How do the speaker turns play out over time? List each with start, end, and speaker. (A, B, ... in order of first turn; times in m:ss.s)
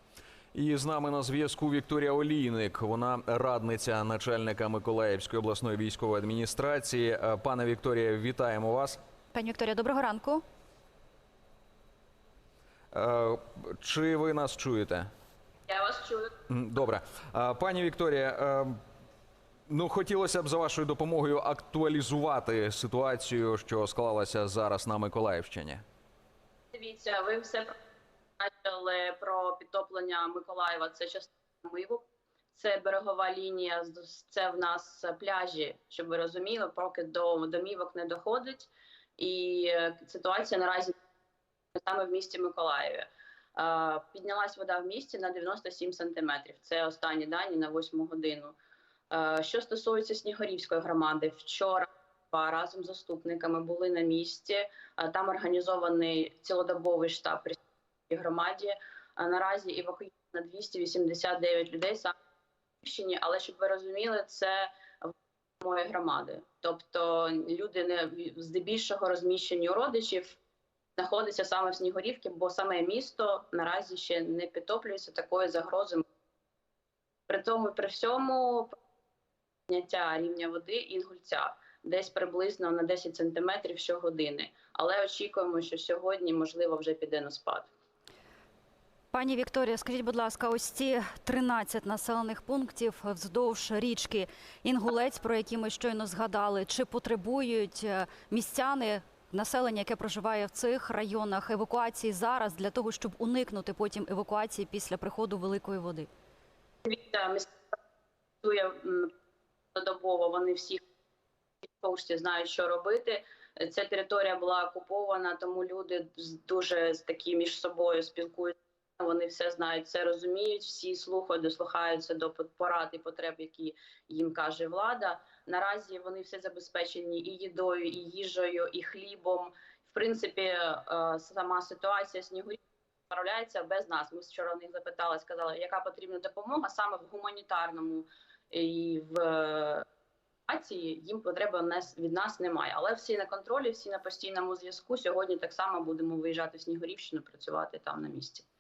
0:00.5-0:09.0 A
0:09.3-0:10.4 B
0:12.9-0:15.1 A
0:15.7-0:16.4 C
0:16.5-0:18.8 A
0:19.7-0:25.8 A
0:26.7-0:27.8 C
0:28.4-0:32.0 C
0:32.6-0:41.0 C
0:41.8-0:48.6 C
0:49.1-1:02.2 C
1:02.8-1:10.4 C
1:11.0-1:16.0 C
1:17.3-1:18.8 C
1:19.7-1:27.7 C
1:29.1-1:46.1 B
1:46.8-1:47.8 C
1:48.4-1:49.1 C
1:49.8-1:50.8 C
1:51.8-2:12.6 C
2:13.1-2:19.8 C
2:20.5-2:28.5 C